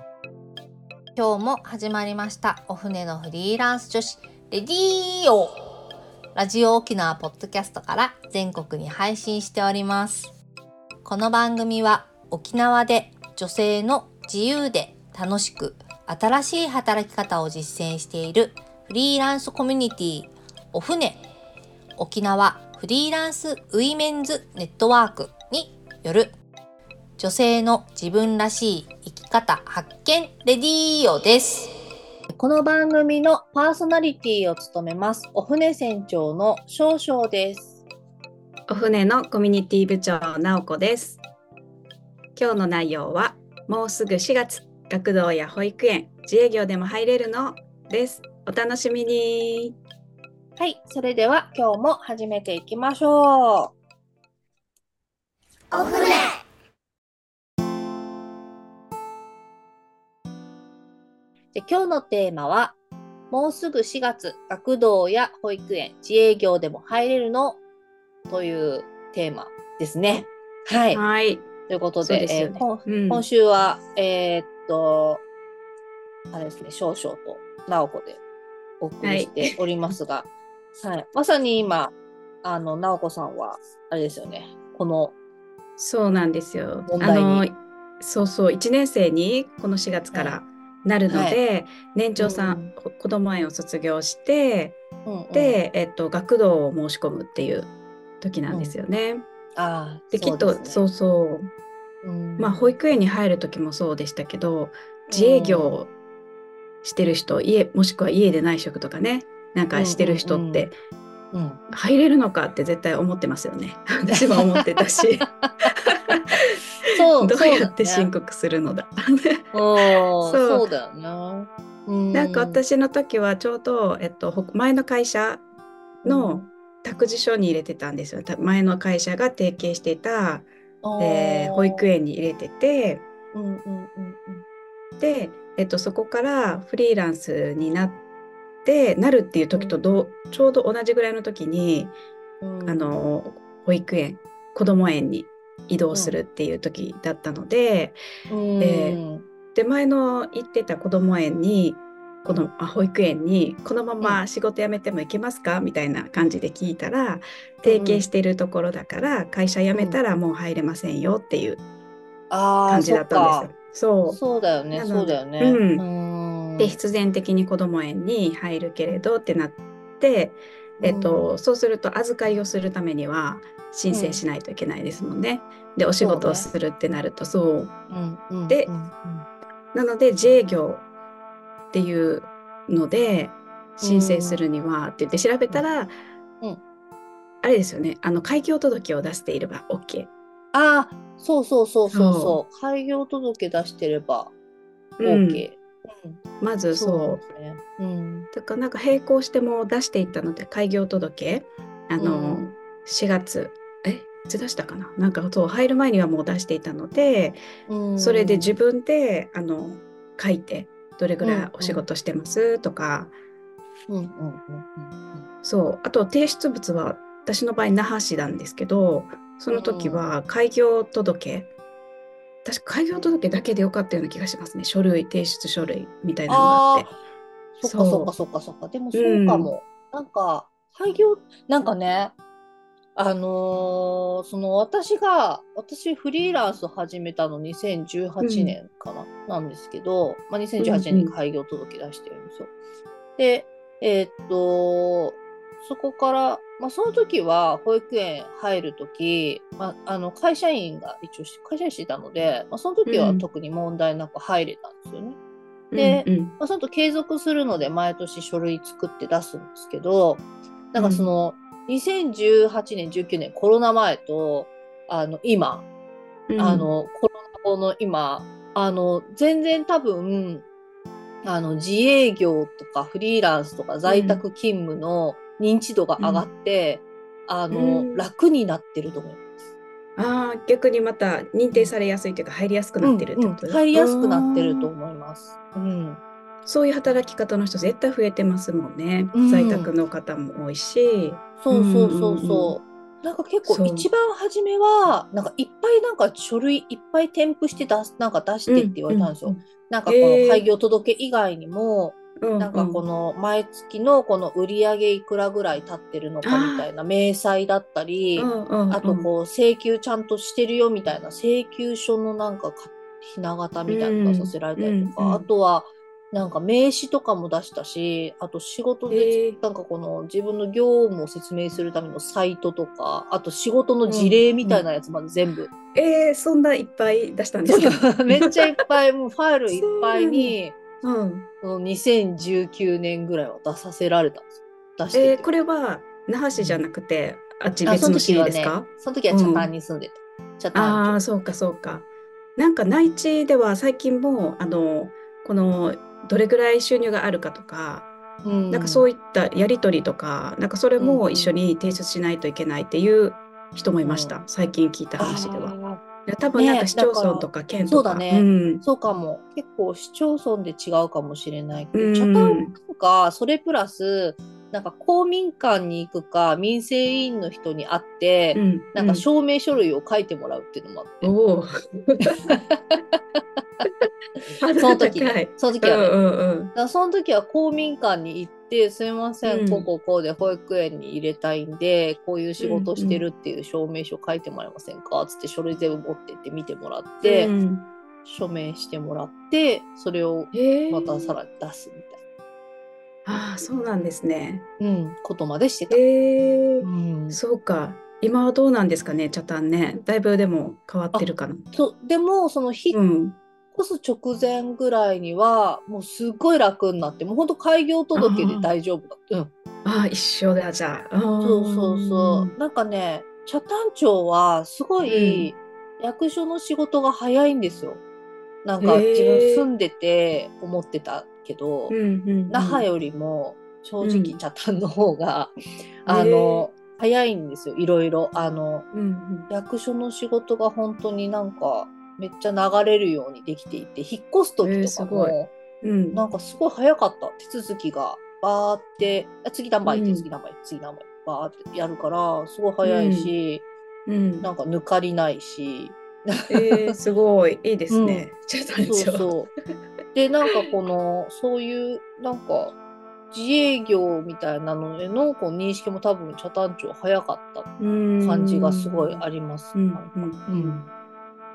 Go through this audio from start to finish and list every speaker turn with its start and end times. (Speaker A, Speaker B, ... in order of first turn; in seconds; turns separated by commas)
Speaker A: 1.2-5.5, Speaker A: 6.3-10.3, Speaker A: 11.0-21.2, Speaker A: 22.0-26.3, Speaker A: 27.2-31.7, Speaker A: 32.3-37.8, Speaker B: 38.7-41.2, Speaker B: 42.4-49.8, Speaker A: 50.6-53.7, Speaker A: 55.7-56.2, Speaker A: 61.5-62.8, Speaker A: 63.3-67.6, Speaker A: 68.3-71.0, Speaker B: 70.9-71.5, Speaker A: 71.7-75.2, Speaker B: 72.0-73.2, Speaker A: 76.3-78.2, Speaker A: 78.8-81.9, Speaker B: 79.0-79.6, Speaker A: 82.4-85.2, Speaker B: 85.8-94.8, Speaker A: 86.9-87.5, Speaker A: 90.1-90.4, Speaker A: 91.1-91.4, Speaker A: 92.2-92.7, Speaker A: 95.0-95.6, Speaker B: 95.3-99.3, Speaker A: 98.5-98.8, Speaker A: 99.6-100.9, Speaker B: 100.1-101.5, Speaker A: 102.0-102.8, Speaker B: 102.4-105.9, Speaker A: 105.1-105.8, Speaker B: 106.8-110.8, Speaker A: 109.8-110.7, Speaker A: 111.3-111.6, Speaker B: 111.7-119.4, Speaker A: 114.1-115.7, Speaker A: 116.3-118.1, Speaker A: 119.5-122.6, Speaker B: 120.0-120.7, Speaker B: 122.1-125.5, Speaker B: 126.0-130.5, Speaker A: 126.0-126.5, Speaker A: 130.8-131.9, Speaker B: 131.0-133.0, Speaker A: 133.3-134.4, Speaker B: 135.0-138.0, Speaker B: 138.7-142.0, Speaker A: 142.4-143.0, Speaker B: 142.7-148.0, Speaker A: 145.9-146.2, Speaker A: 148.3-149.3, Speaker B: 148.6-149.0, Speaker B: 149.5-161.6, Speaker A: 157.6-158.1, Speaker A: 162.3-163.5, Speaker B: 162.7-164.2, Speaker A: 164.1-166.8, Speaker B: 164.7-165.8, Speaker B: 166.6-177.7, Speaker A: 170.8-171.3, Speaker A: 173.9-174.2, Speaker A: 176.0-176.5, Speaker A: 177.9-179.3, Speaker B: 179.7-180.9, Speaker B: 181.7-185.9, Speaker A: 183.8-184.4, Speaker B: 187.4-190.1, Speaker A: 190.5-194.3, Speaker B: 191.9-192.4, Speaker B: 195.0-195.5, Speaker A: 195.0-196.2, Speaker B: 196.4-197.2, Speaker A: 196.7-198.3, Speaker B: 198.3-207.4, Speaker A: 202.0-202.5, Speaker A: 207.7-208.6, Speaker B: 208.0-213.1, Speaker A: 211.2-211.9, Speaker A: 213.9-215.3, Speaker B: 215.4-221.5, Speaker A: 219.5-220.1, Speaker B: 222.4-226.9, Speaker A: 226.3-227.0, Speaker A: 227.6-232.2, Speaker B: 227.6-228.1, Speaker B: 228.9-229.5, Speaker A: 233.0-242.5, Speaker B: 238.2-238.6, Speaker B: 240.6-241.1, Speaker A: 243.2-255.2, Speaker B: 252.9-253.2, Speaker B: 255.7-256.4, Speaker A: 255.8-265.7, Speaker B: 260.8-261.1, Speaker B: 266.3-266.7, Speaker A: 266.4-270.4, Speaker A: 271.2-279.2, Speaker B: 273.9-274.2, Speaker B: 276.0-276.3, Speaker B: 277.5-278.1, Speaker B: 280.0-284.7, Speaker A: 282.8-286.0, Speaker B: 286.5-292.6, Speaker A: 289.1-289.8, Speaker A: 291.4-325.5, Speaker B: 293.4-293.9, Speaker B: 298.5-300.5, Speaker B: 302.2-302.8, Speaker B: 306.2-306.7, Speaker B: 308.2-309.1, Speaker B: 313.7-315.3, Speaker B: 318.9-319.4, Speaker B: 323.9-324.6, Speaker B: 325.7-328.6, Speaker A: 327.4-330.6, Speaker B: 329.5-331.3, Speaker A: 331.4-335.3, Speaker B: 334.9-339.5, Speaker A: 336.4-336.6, Speaker A: 337.6-341.0, Speaker B: 340.5-347.9, Speaker A: 348.2-348.9, Speaker B: 348.5-358.6, Speaker A: 350.8-351.3, Speaker A: 353.8-354.2, Speaker A: 355.0-355.8, Speaker A: 356.4-371.1, Speaker B: 361.7-362.6, Speaker B: 368.4-369.1, Speaker B: 371.0-372.3, Speaker A: 372.1-373.0, Speaker A: 374.3-376.0, Speaker B: 374.4-376.5, Speaker A: 376.5-387.3, Speaker B: 379.3-379.7, Speaker B: 382.4-383.1, Speaker B: 387.0-387.7, Speaker A: 388.1-392.0, Speaker B: 390.3-391.2, Speaker B: 393.1-394.5, Speaker A: 394.6-395.8, Speaker B: 395.7-401.5, Speaker A: 396.6-397.2, Speaker A: 400.9-402.8, Speaker B: 402.7-403.2, Speaker A: 403.5-409.3, Speaker B: 408.0-408.5, Speaker B: 409.6-412.3, Speaker A: 411.2-417.8, Speaker B: 414.9-415.3, Speaker A: 418.4-421.8, Speaker B: 418.6-419.5, Speaker B: 421.7-422.7, Speaker A: 422.3-425.3, Speaker B: 423.8-424.2, Speaker A: 425.9-428.7, Speaker B: 425.9-426.5, Speaker B: 428.7-429.3, Speaker A: 429.3-435.3, Speaker B: 434.4-436.0, Speaker A: 435.9-443.5, Speaker B: 439.7-440.1, Speaker B: 442.6-443.1, Speaker B: 443.9-444.3, Speaker A: 444.2-446.8, Speaker B: 446.3-449.1, Speaker A: 447.7-448.1, Speaker A: 448.6-449.3, Speaker A: 449.9-452.6, Speaker A: 453.1-460.7, Speaker B: 457.6-459.0, Speaker B: 459.5-460.7